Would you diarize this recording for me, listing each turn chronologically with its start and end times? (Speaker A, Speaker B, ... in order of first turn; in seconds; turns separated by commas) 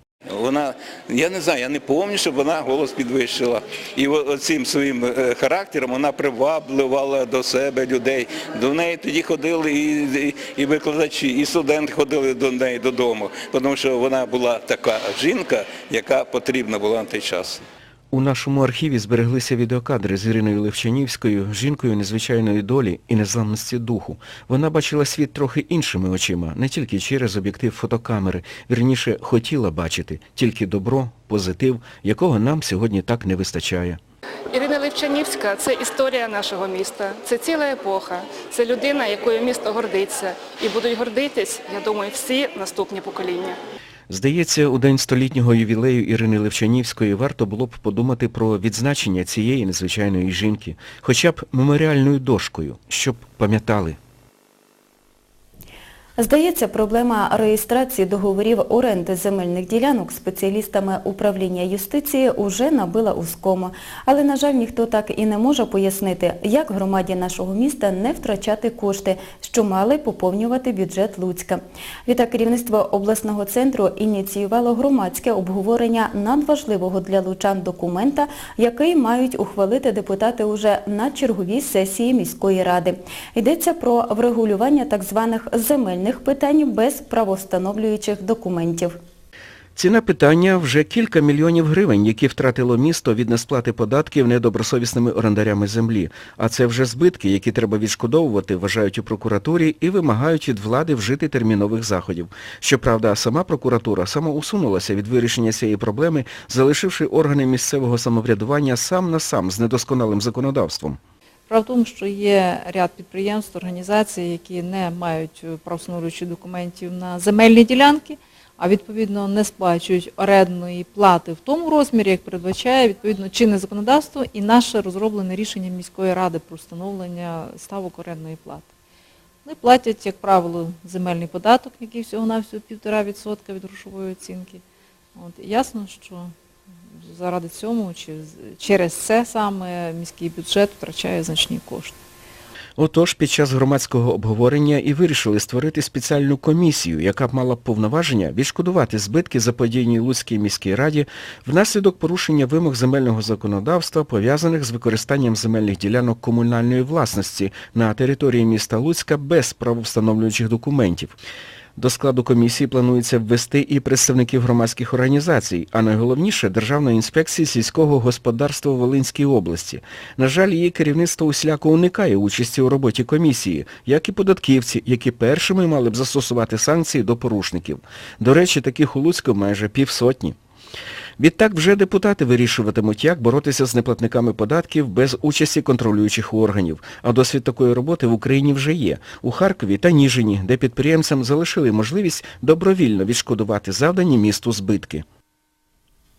Speaker A: 0.3-17.6, Speaker B: 18.1-34.0, Speaker C: 34.5-43.5, Speaker B: 44.1-54.0, Speaker D: 56.2-89.0, Speaker B: 89.8-111.0, Speaker E: 111.5-128.7, Speaker E: 129.4-134.6, Speaker E: 135.2-136.3, Speaker E: 136.9-141.9, Speaker B: 142.8-161.2, Speaker B: 161.8-180.4, Speaker B: 181.2-195.1